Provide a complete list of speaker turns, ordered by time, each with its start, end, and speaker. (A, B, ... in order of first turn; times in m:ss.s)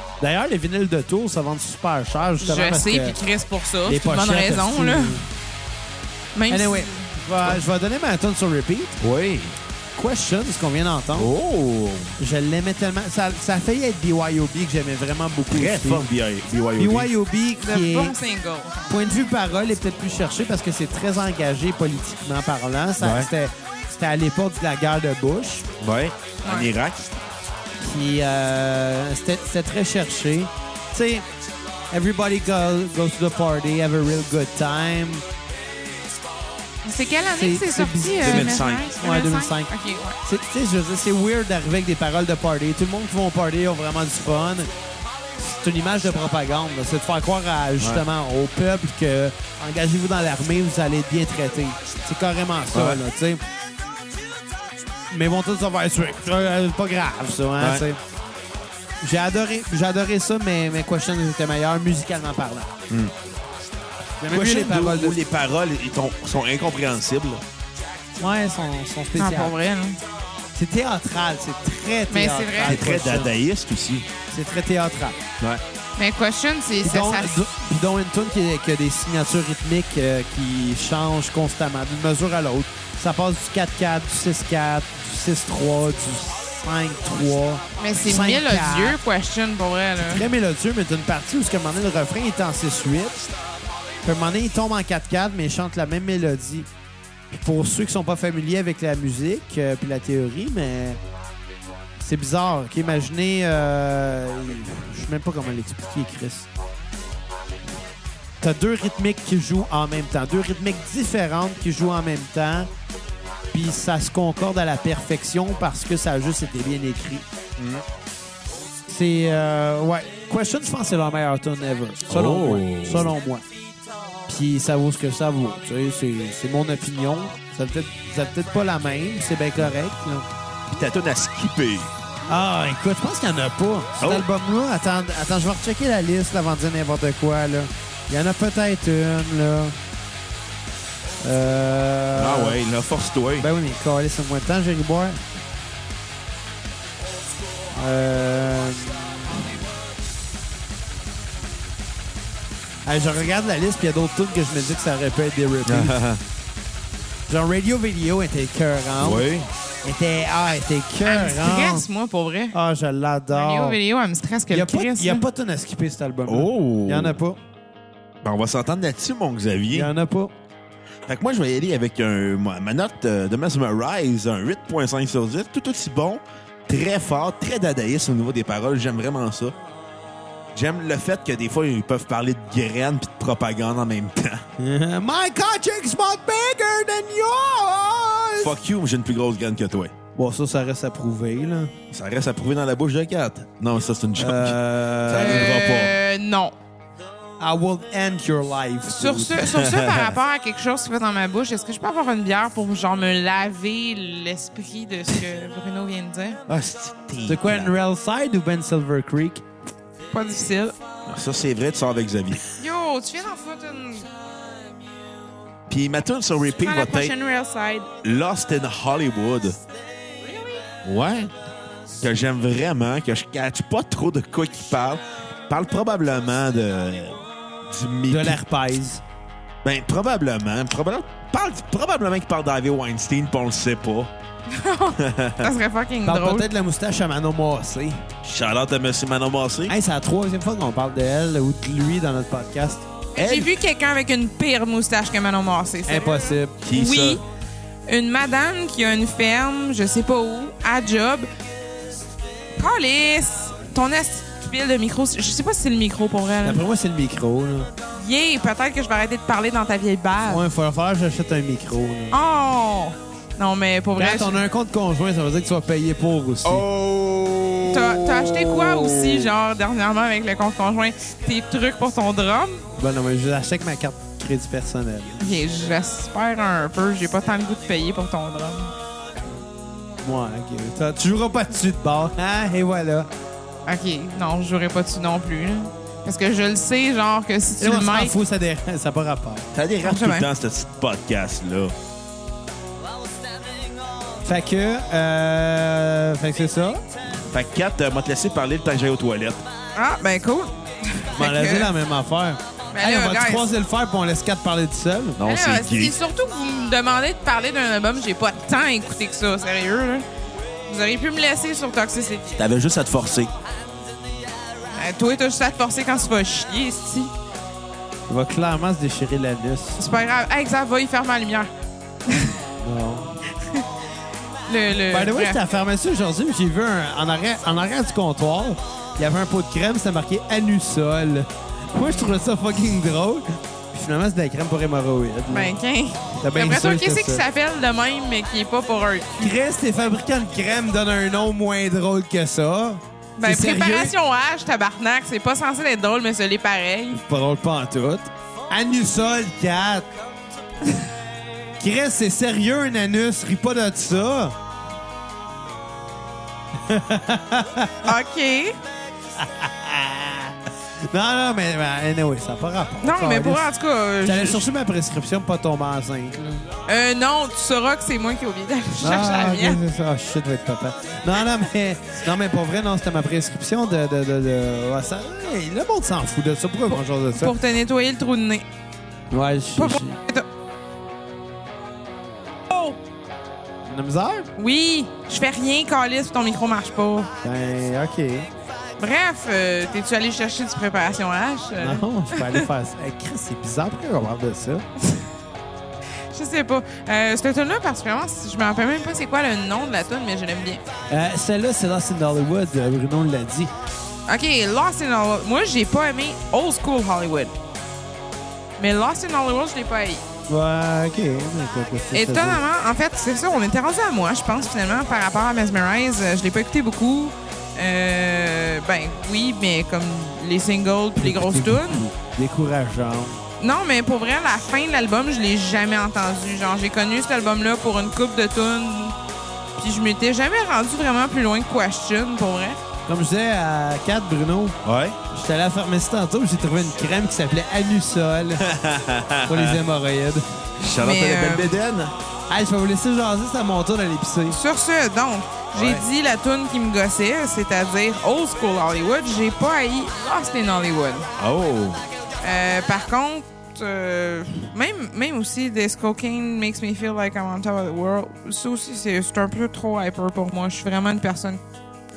0:00.2-0:03.2 A
0:02.4-0:05.2 B
0:03.9-0:05.3 A
0:06.4-0:07.1 B
0:06.5-0:09.0 A
0:09.0-0:09.6 C
0:10.0-0:11.3 A
0:11.2-0:12.2 C
0:12.2-0:16.1 A
0:15.5-0:17.1 C
0:16.8-0:18.2 A
0:17.6-0:19.2 B
0:18.9-0:25.7 A
0:23.0-0:23.3 C
0:25.8-0:27.0 C
0:26.4-0:26.7 B
0:27.8-0:31.3 A
0:31.9-0:35.2 A
0:36.8-0:40.2 B
0:37.4-0:44.7 A
0:38.2-0:38.9 C
0:45.4-0:53.4 A
0:52.7-0:53.0 C
0:55.1-0:58.0 A
0:57.6-0:57.8 C
0:59.0-1:02.7 A
1:04.2-1:05.2 A
1:04.3-1:07.4 C
1:08.2-1:09.6 A
1:09.2-1:10.0 B
1:10.5-1:13.4 A
1:12.1-1:12.8 B
1:12.6-1:14.1 C
1:14.3-1:15.2 A
1:16.0-1:17.4 B
1:16.8-1:29.0 A
1:27.8-1:30.3 B
1:30.0-1:33.2 A
1:34.0-1:36.7 A
1:37.3-1:41.0 A
1:42.0-1:46.5 A
1:48.4-1:52.7 A
1:53.5-1:57.3 A
1:57.6-1:57.8 C
1:58.9-2:03.4 A
2:02.1-2:03.1 C
2:04.3-2:10.3 A
2:10.7-2:11.9 C
2:12.3-2:19.8 A
2:14.0-2:14.3 C
2:21.2-2:22.6 A
2:22.2-2:23.5 C
2:23.4-2:25.2 A
2:27.7-2:29.6 A
2:32.8-2:35.9 A
2:35.6-2:36.2 C
2:37.3-2:39.3 A
2:39.0-2:39.5 C
2:39.8-2:41.9 A
2:41.0-2:42.6 B
2:42.5-2:43.8 A
2:43.3-2:45.2 B
2:44.5-2:47.4 A
2:46.3-2:47.2 C
2:48.2-2:49.9 C
2:49.7-2:50.3 A
2:51.1-2:59.6 C
3:00.6-3:04.4 C
3:04.6-3:08.5 A
3:08.4-3:09.9 C
3:10.2-3:11.7 A
3:11.9-3:16.0 C
3:14.2-3:15.5 A
3:15.1-3:16.6 B
3:17.4-3:19.4 A
3:18.9-3:26.4 B
3:19.5-3:20.1 C
3:26.5-3:27.7 C
3:27.3-3:29.4 A
3:30.1-3:30.8 B
3:31.1-3:32.5 C
3:32.6-3:34.1 B
3:35.7-3:37.1 C
3:36.6-3:37.9 B
3:38.0-3:39.6 C
3:40.2-3:40.6 B
3:40.8-3:41.3 C
3:42.0-3:48.4 C
3:48.1-3:49.0 A
3:49.6-3:54.1 C
3:54.5-3:56.5 B
3:55.0-3:55.5 C
3:56.0-3:58.1 A
3:58.2-3:59.7 C
3:59.7-4:02.9 A
4:03.2-4:07.2 B
4:03.2-4:03.5 C
4:05.9-4:06.6 A
4:06.6-4:07.2 C
4:07.9-4:11.3 B
4:12.6-4:16.6 B
4:16.4-4:17.7 A
4:17.9-4:20.4 B
4:20.3-4:22.2 A
4:22.1-4:24.4 B
4:24.0-4:26.7 A
4:26.4-4:29.3 C
4:27.6-4:32.6 B
4:32.8-4:35.4 A
4:35.2-4:38.7 B
4:40.0-4:43.1 A
4:43.7-4:48.1 B
4:47.6-4:49.5 A
4:49.5-4:51.7 C
4:49.8-4:50.3 B
4:54.2-4:56.8 A
4:57.3-4:59.5 C
4:59.8-5:01.7 B
5:01.1-5:05.2 A
5:02.7-5:03.5 B
5:05.2-5:06.0 C
5:05.2-5:10.1 B
5:10.7-5:12.3 B
5:12.4-5:13.3 C
5:14.7-5:17.1 B
5:18.1-5:19.8 A
5:19.8-5:21.5 B
5:22.1-5:22.4 B
5:22.6-5:23.2 A
5:23.4-5:23.7 B
5:24.5-5:25.4 B
5:24.8-5:35.5 A
5:31.8-5:32.2 B
5:35.3-5:39.3 B
5:36.2-5:37.2 A
5:39.2-5:44.0 A
5:43.2-5:47.0 B
5:46.9-5:49.9 A
5:51.6-5:54.4 A
5:56.6-5:57.9 A
5:57.8-5:58.6 B
5:59.2-6:03.5 A
6:02.8-6:04.5 B
6:04.0-6:06.5 A
6:06.7-6:09.6 B
6:08.8-6:17.3 A
6:16.7-6:18.5 B
6:19.1-6:20.0 A
6:19.6-6:20.3 B
6:22.5-6:22.8 B
6:23.7-6:24.3 A
6:24.4-6:27.1 B
6:27.2-6:28.3 A
6:28.8-6:32.5 B
6:31.6-6:34.6 A
6:36.1-6:40.6 B
6:40.9-6:43.5 A
6:44.1-6:47.3 B
6:48.6-6:50.0 B
6:50.3-6:52.4 A
6:51.9-7:01.8 B
7:01.0-7:03.2 A
7:03.4-7:09.0 B
7:09.6-7:12.6 B
7:12.9-7:14.6 A
7:14.6-7:15.0 C
7:15.1-7:18.4 A
7:18.4-7:19.6 C
7:19.3-7:20.2 A
7:20.6-7:21.9 C
7:20.8-7:21.6 B
7:22.3-7:24.4 A
7:24.3-7:31.1 B
7:25.5-7:25.8 C
7:31.2-7:31.9 C
7:32.2-7:41.4 B